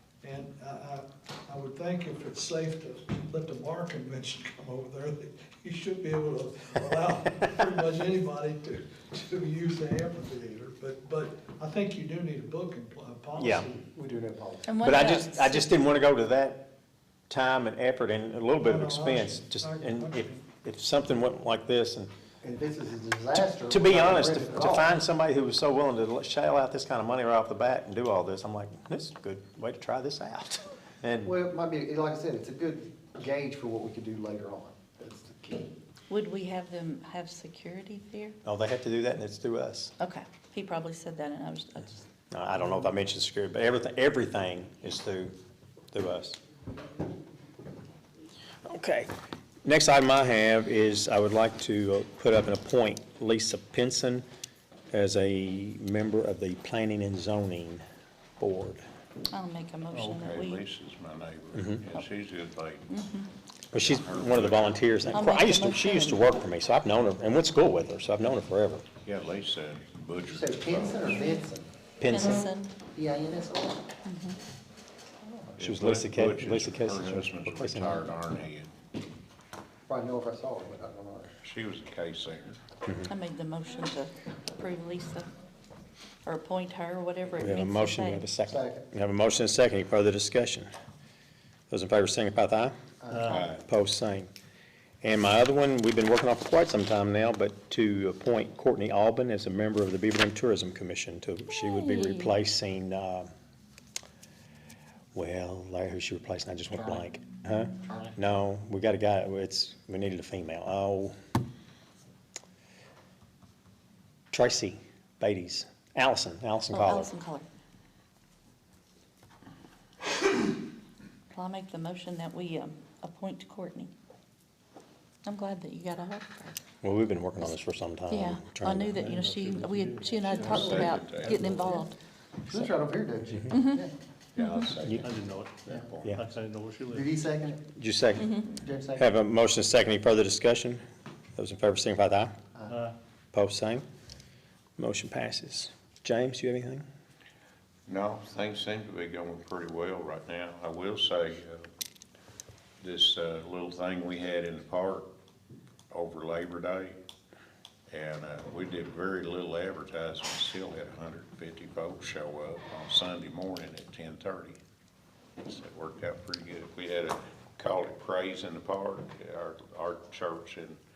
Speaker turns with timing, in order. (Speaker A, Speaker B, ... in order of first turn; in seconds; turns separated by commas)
Speaker A: 0.3-13.7, Speaker B: 13.4-13.7, Speaker C: 13.8-14.7, Speaker D: 14.7-15.7, Speaker B: 14.8-16.7, Speaker B: 17.3-22.1, Speaker A: 18.6-20.2, Speaker C: 22.4-24.9, Speaker B: 23.6-31.3, Speaker C: 31.2-35.7, Speaker D: 36.1-38.4, Speaker B: 38.4-39.9, Speaker D: 40.0-42.0, Speaker B: 42.3-45.3, Speaker B: 45.9-46.4, Speaker B: 48.6-49.1, Speaker B: 49.6-54.2, Speaker B: 54.9-57.8, Speaker B: 58.4-58.8, Speaker D: 59.3-60.6, Speaker E: 59.9-62.9, Speaker B: 61.5-61.8, Speaker D: 62.9-63.3, Speaker E: 63.7-65.2, Speaker B: 63.7-68.8, Speaker D: 65.1-66.3, Speaker E: 69.0-71.2, Speaker C: 70.2-71.7, Speaker B: 72.0-72.5, Speaker D: 72.1-72.7, Speaker C: 72.9-73.8, Speaker D: 74.0-74.4, Speaker C: 75.2-75.5, Speaker E: 75.6-78.7, Speaker B: 75.6-78.0, Speaker C: 79.9-81.3, Speaker E: 81.4-82.6, Speaker D: 83.0-85.3, Speaker D: 86.2-88.2, Speaker B: 87.4-90.7, Speaker C: 88.5-88.8, Speaker B: 91.7-92.7, Speaker C: 93.0-93.5, Speaker E: 93.3-93.6, Speaker B: 93.6-94.3, Speaker B: 95.0-103.3, Speaker D: 101.5-102.3, Speaker B: 105.1-111.1, Speaker B: 114.3-117.1, Speaker D: 116.7-117.5, Speaker D: 121.3-123.9, Speaker D: 125.2-126.5, Speaker B: 126.8-129.1, Speaker D: 128.1-132.0, Speaker F: 129.0-131.1, Speaker E: 130.3-131.8, Speaker C: 132.4-133.9, Speaker D: 133.5-133.8, Speaker E: 134.3-135.1, Speaker D: 134.4-134.7, Speaker F: 135.0-137.1, Speaker E: 135.8-136.0, Speaker C: 136.9-137.6, Speaker B: 137.7-138.4, Speaker D: 138.2-138.4, Speaker C: 138.5-139.1, Speaker B: 138.9-140.8, Speaker B: 141.3-142.3, Speaker F: 142.7-142.9, Speaker B: 143.3-143.8, Speaker B: 144.8-146.8, Speaker E: 147.9-151.7, Speaker E: 152.8-155.1, Speaker E: 155.9-156.9, Speaker E: 157.9-164.6, Speaker E: 165.4-170.8